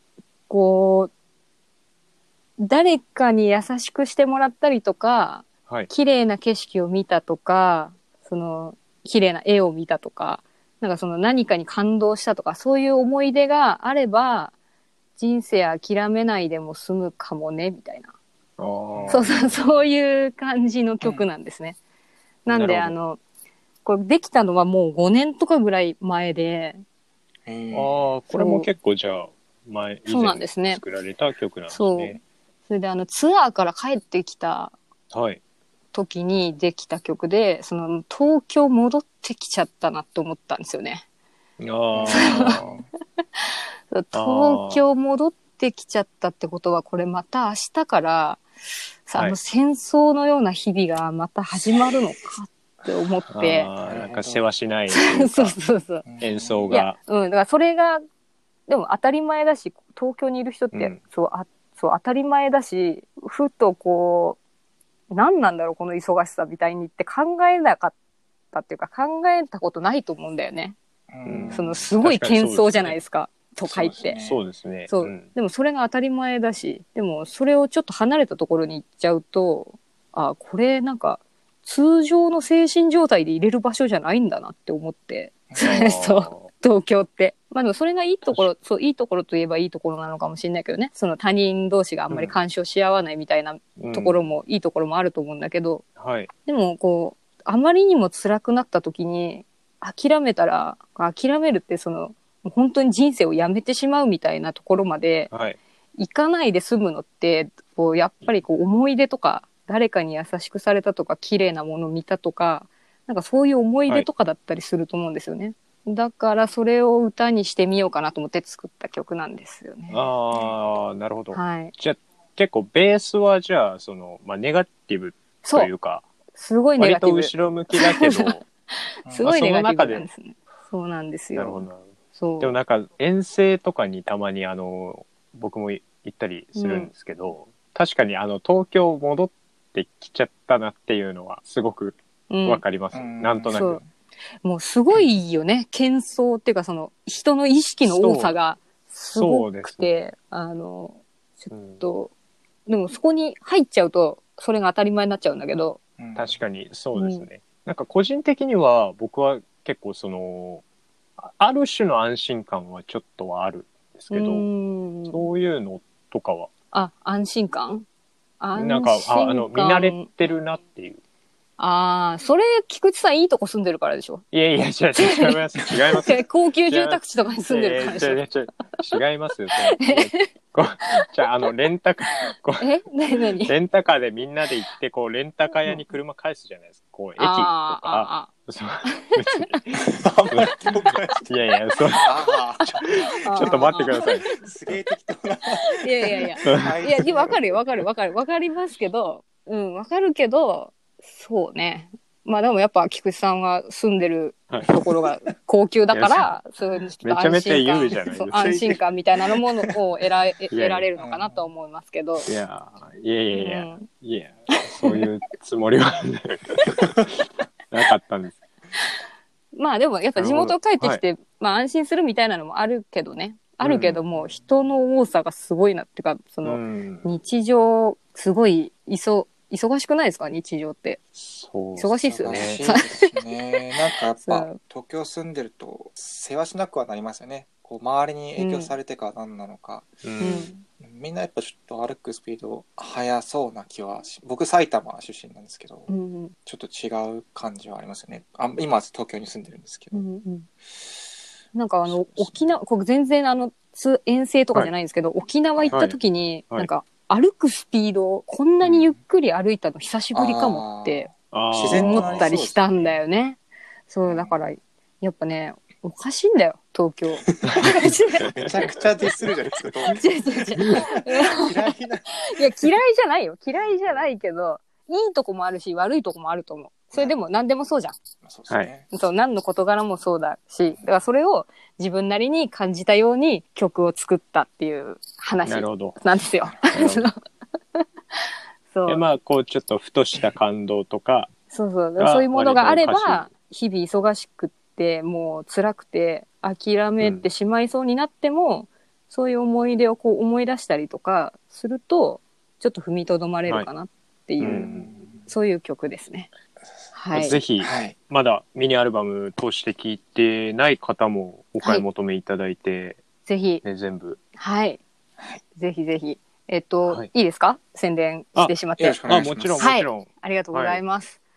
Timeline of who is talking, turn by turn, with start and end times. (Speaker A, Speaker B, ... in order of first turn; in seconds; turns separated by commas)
Speaker A: 0.5-1.1, Speaker A: 2.6-14.5, Speaker A: 15.2-18.1, Speaker B: 18.6-19.5, Speaker C: 18.9-19.6, Speaker A: 19.1-21.8, Speaker A: 22.5-23.2, Speaker B: 22.5-22.9, Speaker A: 23.9-26.8, Speaker C: 27.5-28.0, Speaker B: 27.7-32.2, Speaker A: 28.3-28.7, Speaker A: 30.1-30.8, Speaker A: 31.7-34.8, Speaker B: 35.1-35.4, Speaker A: 35.9-41.0, Speaker B: 41.6-42.8, Speaker C: 41.9-42.9, Speaker A: 42.1-42.6, Speaker A: 43.4-48.4, Speaker B: 44.1-44.8, Speaker A: 49.1-53.7, Speaker B: 53.3-55.6, Speaker C: 53.8-54.4, Speaker A: 54.9-56.0, Speaker C: 56.0-56.7, Speaker B: 56.2-57.0, Speaker A: 56.7-58.0, Speaker A: 58.7-64.4, Speaker B: 60.7-61.0, Speaker A: 65.1-68.0, Speaker A: 68.5-70.8, Speaker C: 71.1-71.8, Speaker B: 71.3-73.0, Speaker A: 71.5-74.2, Speaker C: 73.7-74.4, Speaker B: 74.2-75.3, Speaker A: 74.9-95.8, Speaker B: 85.6-86.5, Speaker B: 93.8-94.2, Speaker B: 96.0-96.3, Speaker A: 96.5-105.3, Speaker B: 105.3-105.6, Speaker A: 106.0-120.0, Speaker B: 119.9-126.0, Speaker C: 120.3-120.6, Speaker A: 121.3-121.7, Speaker A: 125.4-125.7, Speaker A: 126.3-128.3, Speaker B: 126.8-128.4, Speaker A: 129.1-131.7, Speaker B: 129.2-130.1, Speaker B: 131.4-131.8, Speaker A: 132.2-132.5, Speaker B: 132.4-143.8, Speaker A: 136.6-136.9, Speaker A: 142.3-142.6, Speaker C: 142.9-143.9, Speaker A: 143.5-143.8, Speaker A: 144.4-152.1, Speaker B: 147.8-148.3, Speaker B: 149.2-149.9, Speaker B: 151.5-151.8, Speaker A: 152.7-155.8, Speaker C: 156.0-156.3, Speaker B: 156.2-160.6, Speaker A: 157.0-157.2, Speaker B: 161.2-164.5, Speaker A: 164.1-165.2, Speaker B: 165.1-166.5, Speaker A: 166.7-167.9, Speaker A: 168.4-170.1, Speaker B: 168.6-171.0, Speaker A: 171.6-174.2, Speaker B: 174.3-182.7, Speaker A: 175.0-175.4, Speaker A: 176.0-178.2, Speaker A: 179.6-180.3, Speaker A: 182.6-183.5, Speaker B: 183.4-190.6, Speaker A: 187.2-188.3, Speaker A: 188.9-189.4, Speaker C: 189.8-191.3, Speaker B: 191.3-192.1, Speaker C: 192.0-197.6, Speaker A: 192.9-194.3, Speaker B: 193.1-194.3, Speaker A: 195.6-212.3, Speaker B: 196.4-196.8, Speaker B: 205.9-206.3, Speaker B: 207.0-208.6, Speaker C: 208.3-208.8, Speaker B: 210.5-210.9, Speaker C: 211.0-211.4, Speaker B: 212.3-217.0, Speaker A: 213.3-213.9, Speaker A: 214.6-215.1, Speaker B: 217.7-218.4, Speaker A: 219.6-231.0, Speaker B: 220.2-221.0, Speaker B: 223.6-224.0, Speaker B: 226.4-227.1, Speaker B: 231.2-232.6, Speaker A: 231.8-233.3, Speaker C: 232.1-239.9, Speaker A: 234.2-234.6, Speaker A: 238.4-238.7, Speaker B: 240.0-240.5, Speaker A: 240.2-240.6, Speaker C: 240.7-245.9, Speaker A: 245.9-246.3, Speaker C: 246.5-250.0, Speaker A: 249.9-250.5, Speaker A: 251.6-261.1, Speaker C: 251.9-252.4, Speaker B: 255.7-256.0, Speaker C: 258.6-258.9, Speaker C: 260.1-262.9, Speaker B: 261.3-262.4, Speaker A: 261.6-263.4, Speaker A: 263.9-268.8, Speaker C: 264.1-264.4, Speaker C: 267.3-272.6, Speaker A: 269.9-278.0, Speaker C: 278.2-278.9, Speaker A: 278.9-287.2, Speaker B: 285.5-286.0, Speaker B: 286.7-287.1, Speaker A: 288.7-289.0, Speaker B: 288.9-291.3, Speaker A: 291.5-304.7, Speaker B: 292.0-293.3, Speaker B: 304.4-304.9, Speaker C: 304.4-305.2, Speaker A: 305.3-306.3, Speaker A: 306.9-307.4, Speaker B: 307.1-313.0, Speaker C: 307.6-307.9, Speaker A: 313.3-313.6, Speaker B: 313.6-314.2, Speaker A: 314.4-314.8, Speaker A: 315.6-319.0, Speaker B: 318.4-320.8, Speaker C: 318.8-319.7, Speaker A: 319.6-321.2